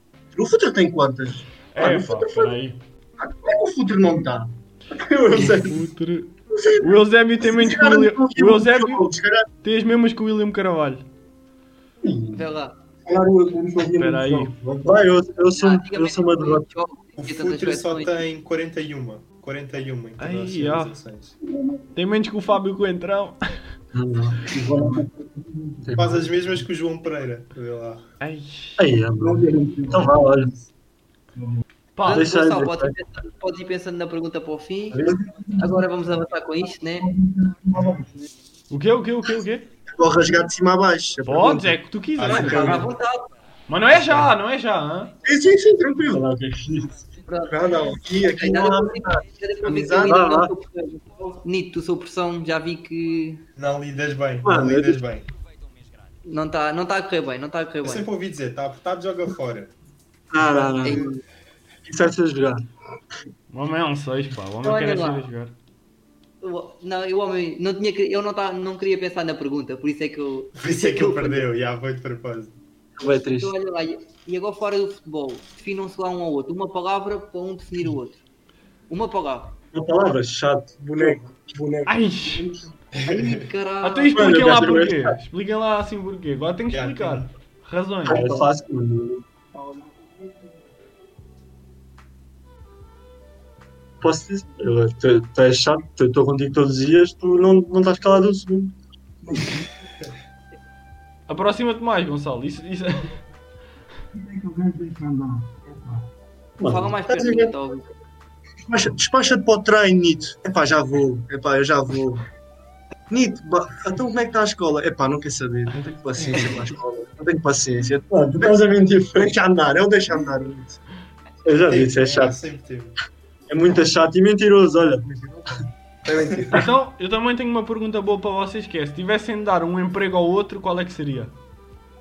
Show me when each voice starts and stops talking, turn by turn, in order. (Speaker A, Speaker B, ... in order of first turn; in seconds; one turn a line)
Speaker A: 0.3-2.5
Speaker B: 1.7-2.8
Speaker A: 3.3-5.8
Speaker B: 5.3-9.1
Speaker A: 7.4-9.5
Speaker B: 9.6-11.0
Speaker C: 12.3-12.8
Speaker D: 13.1-15.1
Speaker B: 13.9-14.5
Speaker E: 14.8-16.7
Speaker C: 15.6-18.2
Speaker F: 17.2-21.3
Speaker B: 20.2-20.9
Speaker B: 21.9-23.4
Speaker E: 23.9-24.5
Speaker D: 24.4-25.9
Speaker E: 25.8-26.3
Speaker F: 25.9-28.0
Speaker B: 28.2-28.8
Speaker E: 28.8-30.5
Speaker D: 29.2-30.7
Speaker D: 31.3-31.6
Speaker B: 31.9-32.3
Speaker C: 32.0-35.0
Speaker E: 32.1-33.0
Speaker E: 34.9-35.2
Speaker D: 35.0-35.8
Speaker C: 35.6-37.1
Speaker D: 37.0-38.3
Speaker B: 38.7-39.7
Speaker A: 39.9-41.8
Speaker B: 41.2-42.9
Speaker F: 42.2-42.9
Speaker C: 42.2-43.3
Speaker B: 43.7-45.1
Speaker A: 45.2-46.1
Speaker E: 46.0-47.0
Speaker C: 47.2-47.6
Speaker A: 47.5-50.2
Speaker C: 48.2-53.4
Speaker E: 50.0-50.5
Speaker F: 53.5-55.3
Speaker E: 54.4-54.9
Speaker C: 56.2-58.1
Speaker F: 57.8-59.7
Speaker E: 60.3-61.1
Speaker E: 61.9-62.6
Speaker B: 63.5-65.5
Speaker C: 64.6-65.2
Speaker C: 66.4-71.5
Speaker F: 70.5-72.5
Speaker E: 73.0-73.5
Speaker C: 73.4-78.2
Speaker C: 78.9-79.5
Speaker E: 79.7-81.2
Speaker D: 81.0-82.6
Speaker B: 81.8-82.4
Speaker F: 82.9-83.5
Speaker C: 83.0-84.2
Speaker B: 83.8-88.5
Speaker E: 84.1-85.1
Speaker F: 86.7-87.3
Speaker E: 88.0-89.2
Speaker D: 89.5-90.7
Speaker E: 94.0-98.8
Speaker D: 99.2-99.6
Speaker B: 101.3-103.2
Speaker D: 104.1-106.0
Speaker E: 106.6-107.4
Speaker C: 106.7-107.9
Speaker A: 108.7-112.2
Speaker A: 113.1-120.8
Speaker E: 116.2-116.7
Speaker E: 118.1-119.3
Speaker E: 121.4-122.4
Speaker F: 121.6-122.9
Speaker E: 123.5-125.0
Speaker A: 126.0-126.6
Speaker B: 126.5-131.3